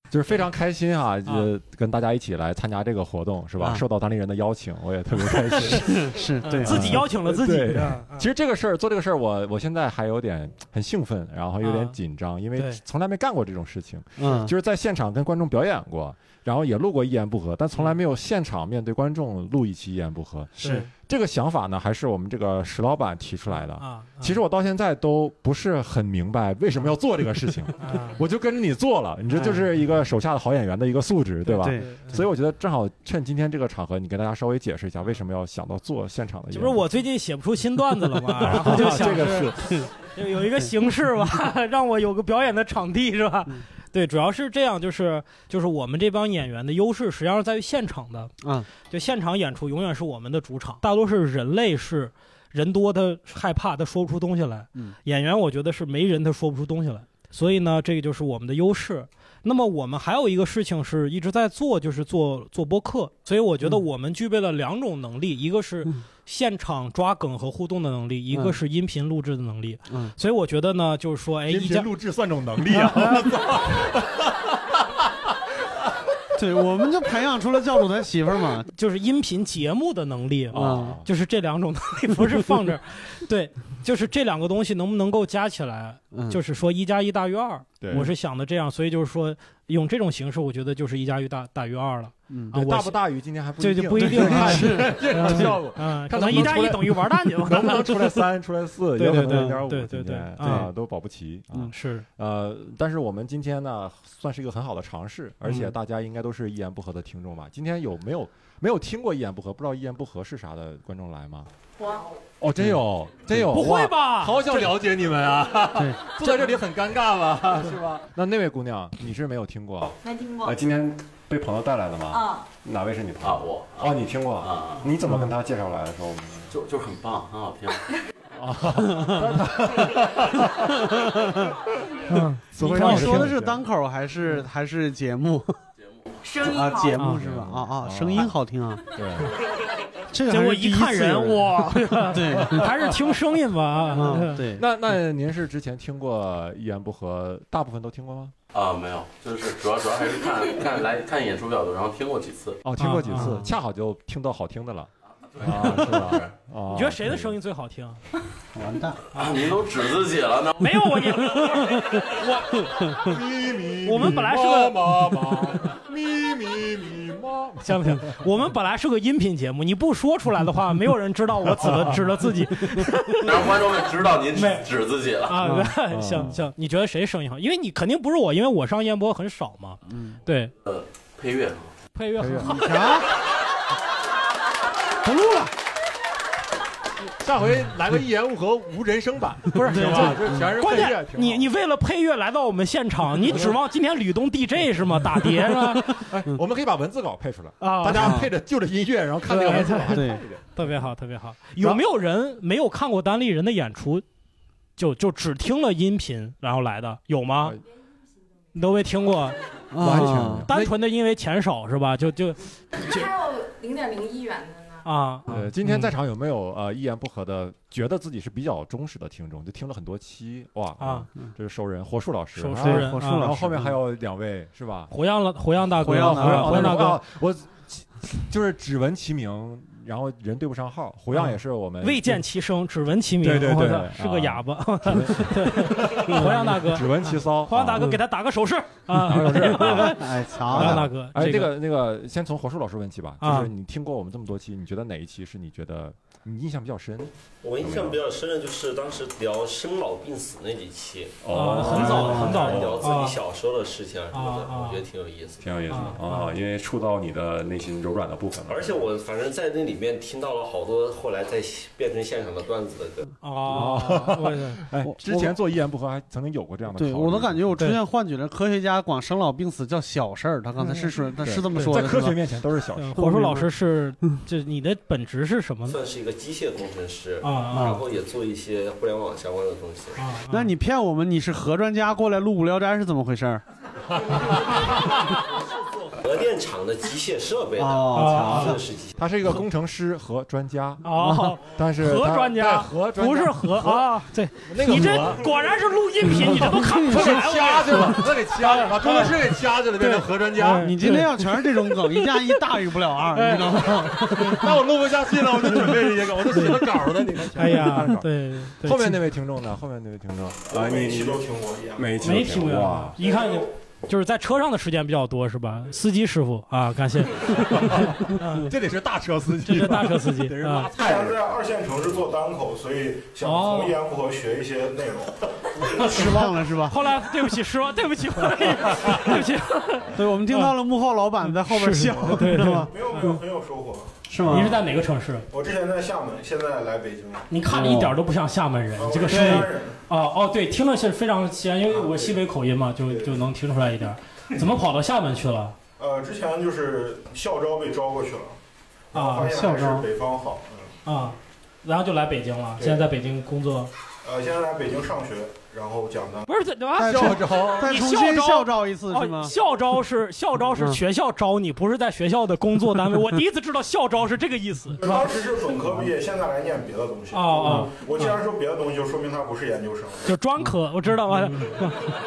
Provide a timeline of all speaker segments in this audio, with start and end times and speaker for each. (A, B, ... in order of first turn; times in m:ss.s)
0:00.1-0:06.1 A
0:05.7-0:07.0 B
0:06.5-0:08.3 C
0:06.6-0:36.8 A
0:11.6-0:11.9 C
0:12.6-0:12.8 C
0:14.2-0:14.5 B
0:20.6-0:20.9 B
0:20.6-0:20.9 C
0:23.7-0:24.4 C
0:27.8-0:28.2 C
0:31.4-0:32.2 C
0:31.6-0:32.0 B
0:36.5-1:11.9 C
0:38.4-0:39.8 A
0:48.4-0:48.7 B
1:08.3-1:08.6 B
1:11.5-1:15.9 A
1:12.7-1:13.4 C
1:16.4-1:18.7 B
1:18.7-1:33.0 C
1:20.5-1:21.0 A
1:20.6-1:21.0 B
1:26.1-1:26.4 B
1:27.8-1:28.1 A
1:32.5-1:51.5 A
1:33.6-1:38.3 C
1:34.0-1:35.0 B
1:39.0-1:40.7 C
1:39.3-1:39.6 B
1:40.4-1:40.7 B
1:41.7-1:42.0 C
1:51.8-1:52.2 D
1:52.4-2:06.5 A
1:53.3-1:54.7 C
2:00.0-2:00.6 D
2:02.1-2:02.4 D
2:03.2-2:04.9 E
2:06.5-2:07.8 E
2:08.3-2:11.0 A
2:08.9-2:09.2 B
2:10.8-2:11.5 B
2:12.1-2:13.3 C
2:12.5-2:13.6 A
2:12.5-2:15.5 B
2:16.2-2:17.0 D
2:16.4-2:18.8 B
2:17.0-2:17.2 C
2:17.2-2:18.4 A
2:18.9-2:19.3 A
2:20.1-2:22.7 B
2:20.2-2:24.5 C
2:23.9-2:24.6 B
2:24.5-2:28.3 A
2:28.5-2:32.6 E
2:32.6-2:37.4 A
2:32.8-2:33.5 C
2:36.7-2:38.0 C
2:38.5-2:39.0 B
2:39.1-2:41.0 E
2:39.2-2:39.5 C
2:40.6-2:43.1 C
2:43.0-2:48.2 A
2:43.8-2:45.6 C
2:47.6-2:53.6 C
2:51.5-2:52.1 A
2:53.2-2:55.4 E
2:54.3-2:54.7 C
2:55.2-3:00.5 C
2:55.4-2:55.7 B
2:55.9-2:56.5 A
2:59.9-3:00.2 B
3:00.6-3:01.7 E
3:01.9-3:02.9 C
3:02.2-3:02.5 A
3:02.4-3:03.0 B
3:05.0-3:05.5 B
3:07.2-3:11.5 A
3:09.6-3:16.1 C
3:09.7-3:10.5 B
3:13.2-3:13.6 A
3:15.9-3:20.9 A
3:17.6-3:18.2 C
3:17.9-3:18.3 B
3:19.3-3:20.2 B
3:19.3-3:24.0 C
3:24.8-3:27.6 C
3:28.5-3:29.4 C
3:29.7-3:30.4 B
3:29.8-3:30.7 A
3:30.4-3:33.0 C
3:32.8-3:34.9 D
3:34.8-3:35.9 C
3:35.3-3:44.9 A
3:40.8-3:41.1 C
3:42.4-3:43.3 C
3:42.6-3:43.7 B
3:44.9-3:47.0 C
3:45.8-3:46.8 B
3:45.8-3:52.2 A
3:51.8-4:01.5 C
3:53.2-3:58.0 A
3:57.8-3:58.0 B
3:58.9-4:08.0 A
3:59.8-4:00.9 B
4:03.2-4:03.5 C
4:07.4-4:15.9 F
4:11.2-4:12.9 A
4:11.3-4:13.2 C
4:14.1-4:14.8 C
4:15.4-4:18.8 A
4:15.6-4:16.3 C
4:18.4-4:23.1 F
4:23.2-4:24.6 C
4:23.5-4:27.6 A
4:24.8-4:25.3 B
4:26.7-4:32.2 B
4:30.6-4:30.9 C
4:31.2-4:32.9 A
4:32.8-4:35.8 C
4:33.0-4:33.5 B
4:35.6-4:40.1 F
4:37.2-4:37.8 C
4:37.5-4:37.8 B
4:40.0-4:40.5 C
4:40.3-4:43.4 B
4:44.1-4:44.8 A
4:46.0-4:49.0 F
4:47.6-4:48.6 B
4:47.9-4:48.6 C
4:49.0-4:50.9 A
4:50.8-5:02.4 C
4:51.0-4:51.3 B
4:51.4-4:55.4 A
4:56.1-4:57.2 B
4:56.8-5:00.7 A
5:00.5-5:04.4 B
5:03.1-5:04.4 C
5:04.2-5:13.0 A
5:06.2-5:06.8 C
5:07.3-5:09.0 C
5:10.5-5:12.0 G
5:12.0-5:18.5 C
5:13.0-5:13.4 G
5:17.2-5:21.3 A
5:19.4-5:20.7 C
5:20.8-5:25.8 G
5:23.2-5:23.8 C
5:25.8-5:26.8 B
5:26.7-5:30.6 C
5:29.9-5:32.7 B
5:31.2-5:33.2 C
5:32.7-5:34.0 G
5:34.1-5:34.5 B
5:34.2-5:35.2 C
5:35.3-5:37.3 G
5:37.3-5:45.6 C
5:37.5-5:38.0 B
5:38.8-5:39.8 G
5:39.1-5:39.4 B
5:41.6-5:42.2 G
5:42.8-5:43.3 G
5:45.8-5:48.4 G
5:48.9-5:50.7 G
5:48.9-5:49.3 C
5:49.2-5:49.8 B
5:50.8-5:53.7 C
5:52.6-5:52.8 G
5:54.0-5:56.3 G
5:56.3-6:04.8 C
5:56.8-5:59.3 B
5:56.8-5:57.7 A
6:04.8-6:10.1 G
6:07.1-6:08.2 C
6:10.0-6:11.9 C